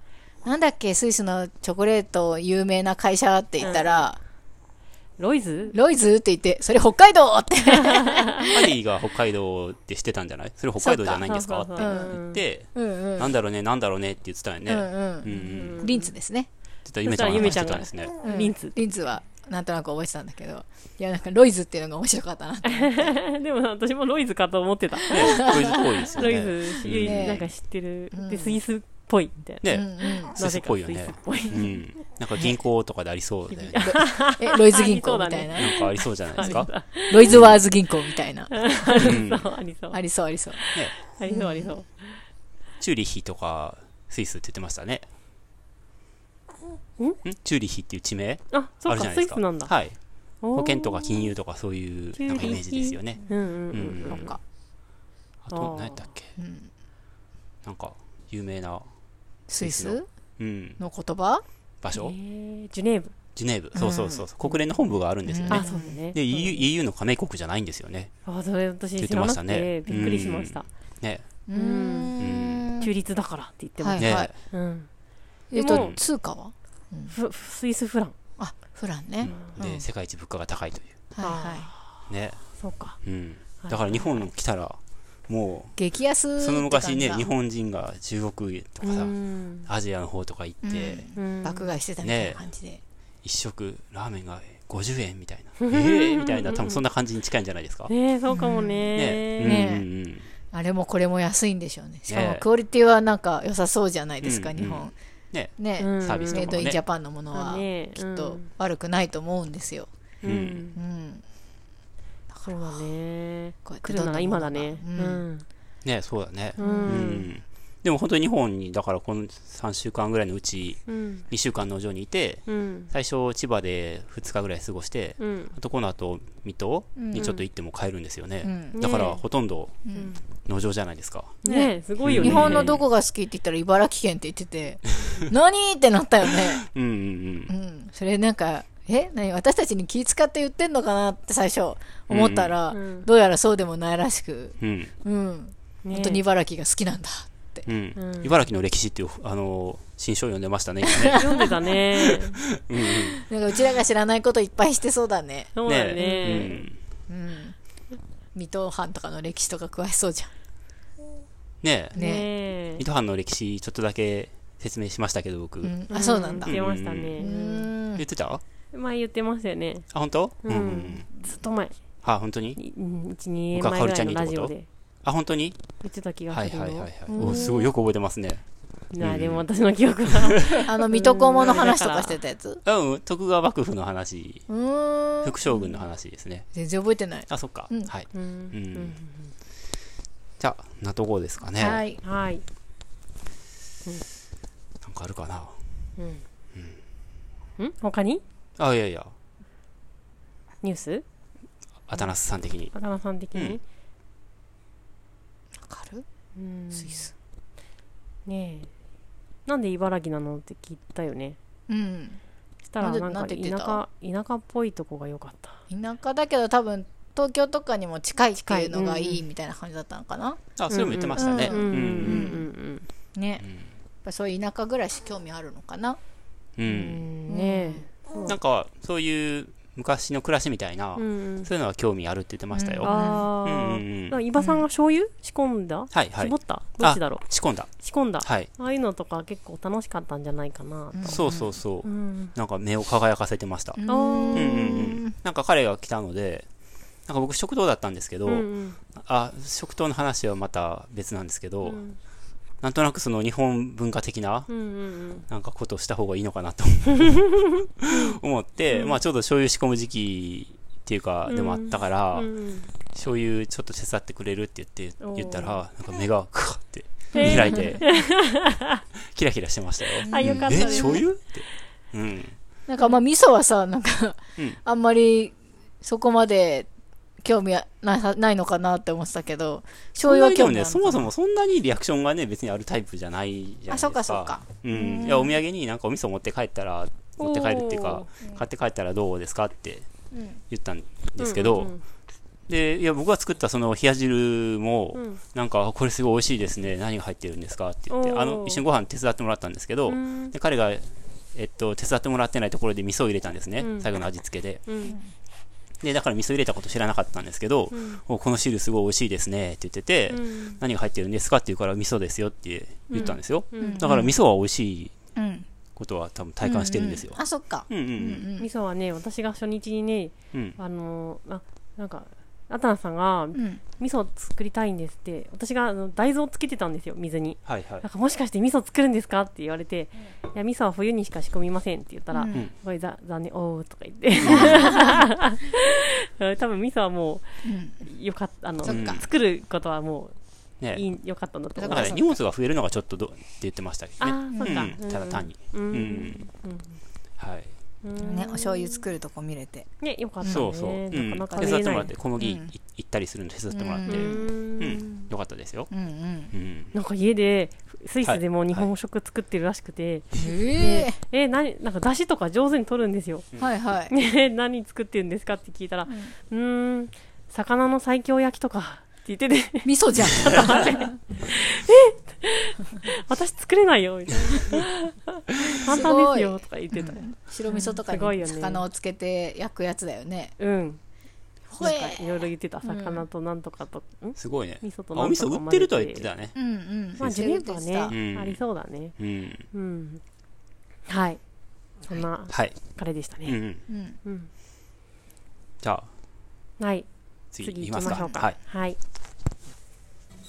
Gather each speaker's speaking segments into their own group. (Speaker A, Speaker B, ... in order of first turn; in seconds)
Speaker A: 0.4-4.2, 5.7-8.7, 10.8-11.2, 11.8-12.2, 12.7-13.3, 14.7-16.5, 17.3-17.6, 18.2-23.1, 25.1-27.5, 28.1-28.6, 29.7-30.3, 33.8-35.7, 36.4-39.2, 39.9-40.6, 41.3-41.7, 54.0-54.4, 56.4-56.7, 59.5-60.1, 60.8-61.4, 63.7-64.2, 65.2-66.0, 69.9-70.2, 71.5-72.9, 73.8-74.3, 75.5-77.1, 78.4-79.9, 81.1-81.7, 85.8-87.3, 90.6-92.8, 98.3-98.9, 99.4-99.8, 100.5-104.9, 105.6-109.9, 110.8-111.2, 112.3-112.8, 113.6-115.2, 116.6-117.0, 127.0-127.3, 128.4-128.8, 131.4-136.7, 137.5-147.6, 150.8-151.5, 152.8-156.6, 157.1-157.6, 158.3-160.3, 161.9-162.3, 165.6-166.5, 167.2-168.0, 177.1-177.6, 180.6-182.6, 184.5-185.7, 186.5-187.9, 191.6-192.0, 205.6-206.1, 206.7-207.1, 211.7-212.2, 212.8-213.8, 215.7-220.5, 221.2-222.4, 223.1-223.5, 224.0-226.0, 227.3-227.8, 232.5-233.3, 234.4-234.6, 240.9-241.6, 243.8-245.1, 267.2-267.8, 270.0-271.0, 272.7-276.7, 277.2-281.1, 283.7-285.3, 290.1-290.4, 313.6-314.1, 315.1-315.5, 316.4-318.5, 323.3-323.6, 332.1-332.5, 334.3-334.9, 337.4-337.8, 338.6-339.0, 341.6-342.1, 344.3-344.7, 348.0-349.7, 350.2-350.5, 351.3-352.5, 353.5-354.3, 355.7-356.3, 360.1-360.9, 363.4-363.9, 369.6-370.9, 375.5-380.3, 381.5-383.0, 386.4-387.9, 393.7-394.0, 397.8-398.2
Speaker B: 3.6-4.0, 5.2-5.8, 7.7-8.6, 11.1-12.4, 15.2-16.1, 17.0-18.8, 22.6-31.7, 33.5-37.5, 38.5-40.0, 40.5-42.2, 48.5-49.7, 50.4-51.3, 52.2-54.3, 55.5-56.0, 61.9-63.1, 65.5-66.7, 68.2-70.7, 71.5-72.1, 72.8-74.9, 75.5-75.9, 77.1-78.1, 79.2-79.5, 81.2-82.0, 82.6-83.0, 83.6-84.2, 88.8-89.7, 91.1-91.7, 95.6-96.8, 97.9-99.7, 105.8-106.6, 107.3-108.5, 110.2-110.8, 112.4-115.5, 116.6-117.3, 120.9-121.2, 122.5-122.9, 125.2-125.5, 127.2-127.4, 128.7-129.2, 129.9-130.2, 131.4-132.8, 142.7-143.1, 145.8-146.2, 147.9-148.4, 151.1-152.4, 155.5-156.6, 161.9-162.8, 165.9-167.7, 168.7-169.9, 170.4-171.8, 172.6-174.7, 175.8-177.7, 178.9-182.2, 188.1-189.3, 192.0-192.4, 196.0-196.2, 197.6-198.2, 200.6-201.0, 202.7-203.6, 206.3-207.1, 208.2-208.7, 209.4-211.4, 212.7-215.6, 218.4-219.2, 220.7-222.9, 226.7-228.3, 230.9-231.5, 232.8-237.2, 237.8-241.1, 241.8-242.3, 243.8-244.9, 248.2-248.8, 251.6-252.0, 254.5-255.2, 257.9-258.1, 258.7-259.0, 261.3-262.7, 265.0-265.6, 267.1-268.8, 270.1-271.0, 284.8-285.3, 287.2-288.1, 291.2-291.8, 294.9-295.2, 297.9-298.6, 299.9-300.3, 303.6-303.9, 304.7-305.0, 307.7-308.0, 310.1-310.6, 312.9-313.8, 318.4-337.2, 337.8-340.1, 340.7-342.0, 344.0-346.8, 347.8-348.8, 349.8-351.9, 353.8-355.1, 356.7-363.2, 363.9-378.6, 380.4-380.8, 381.6-386.1, 387.0-388.9, 389.5-390.0, 390.9-391.2, 391.9-393.4, 394.0-394.3, 396.6-396.9, 397.4-398.8
Speaker C: 8.4-15.9, 16.8-18.1, 25.1-27.4, 29.6-34.0, 35.5-36.7, 37.3-37.5, 39.0-39.4, 42.8-45.0, 47.2-50.0, 50.5-54.3, 55.4-56.3, 57.6-58.9, 59.6-60.8, 61.8-62.1, 63.4-68.1, 69.0-71.2, 72.2-72.7, 74.0-74.3, 75.7-76.0, 79.2-81.0, 82.1-82.4, 83.0-85.8, 86.4-91.1, 92.0-92.4, 93.2-97.9, 99.0-100.3, 102.1-102.4, 104.2-106.8, 110.2-110.6, 115.8-131.4, 132.0-132.8, 136.3-137.5, 142.1-142.5, 144.6-144.9, 147.7-153.6, 155.7-156.8, 161.6-162.0, 162.7-165.8, 166.4-167.3, 167.9-168.4, 169.9-171.1, 172.0-172.6, 173.5-174.5, 175.0-175.6, 176.3-178.4, 179.0-179.4, 182.6-184.4, 185.2-186.5, 187.3-189.0, 190.4-191.8, 194.8-195.6, 198.6-199.1, 201.9-202.7, 203.3-203.6, 220.6-222.4, 226.6-227.1, 228.2-234.2, 235.9-237.7, 238.2-238.5, 241.0-243.8, 244.3-246.4, 247.1-251.8, 252.6-254.5, 255.3-262.3, 262.9-267.9, 269.1-272.4, 280.0-289.9, 290.5-291.7, 292.5-304.6, 305.8-314.9, 315.8-318.3, 327.4-327.9, 334.2-334.8, 338.6-339.0, 341.7-346.2, 347.2-347.5, 350.2-355.7, 356.3-356.7, 358.0-358.7, 384.2-386.4, 387.0-387.4, 387.9-388.4, 389.0-389.5, 393.2-393.6, 395.6-395.9, 397.3-398.4